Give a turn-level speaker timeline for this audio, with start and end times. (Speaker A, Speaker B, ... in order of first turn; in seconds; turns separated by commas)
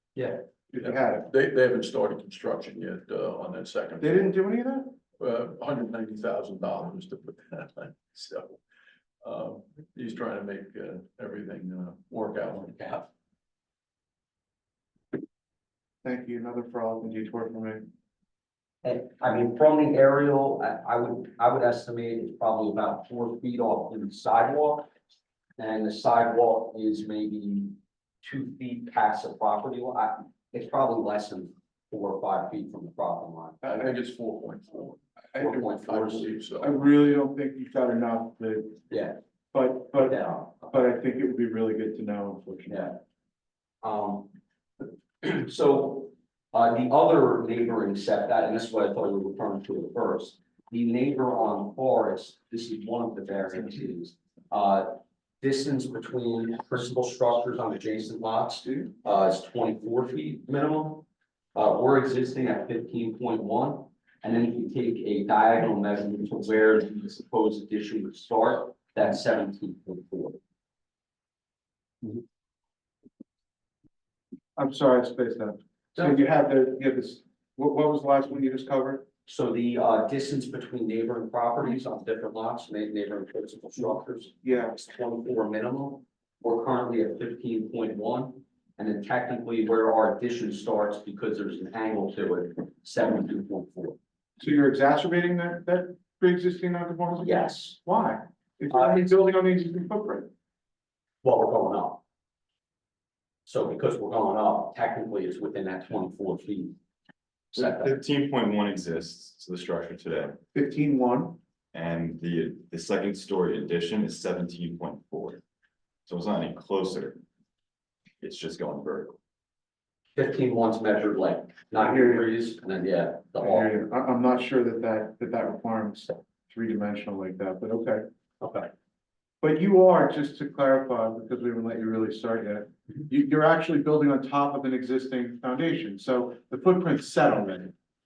Speaker A: 0.1-0.4, Speaker B: 0.7-1.3, Speaker C: 0.8-4.0, Speaker B: 4.0-5.0, Speaker C: 5.2-8.5, Speaker C: 9.2-13.1, Speaker B: 16.0-17.9, Speaker A: 18.8-24.9, Speaker A: 25.6-33.6, Speaker C: 33.6-35.0, Speaker A: 35.3-36.3, Speaker C: 35.8-36.7, Speaker B: 36.6-38.8, Speaker A: 38.9-39.2, Speaker B: 39.5-42.9, Speaker A: 40.0-40.9, Speaker A: 42.7-43.0, Speaker A: 43.8-44.3, Speaker A: 45.2-70.4, Speaker B: 74.5-79.0, Speaker A: 75.9-76.3, Speaker A: 79.2-94.0, Speaker B: 84.4-84.7, Speaker B: 94.4-100.3, Speaker A: 97.2-97.8, Speaker A: 98.7-99.1, Speaker A: 101.2-102.0, Speaker A: 103.5-106.8, Speaker A: 107.5-108.0, Speaker D: 107.5-110.4, Speaker B: 110.5-111.4, Speaker D: 111.7-115.4, Speaker D: 116.1-117.2, Speaker D: 118.2-119.2, Speaker A: 120.2-123.7, Speaker B: 121.7-122.3, Speaker B: 123.4-128.0, Speaker A: 128.4-128.7, Speaker B: 129.4-137.7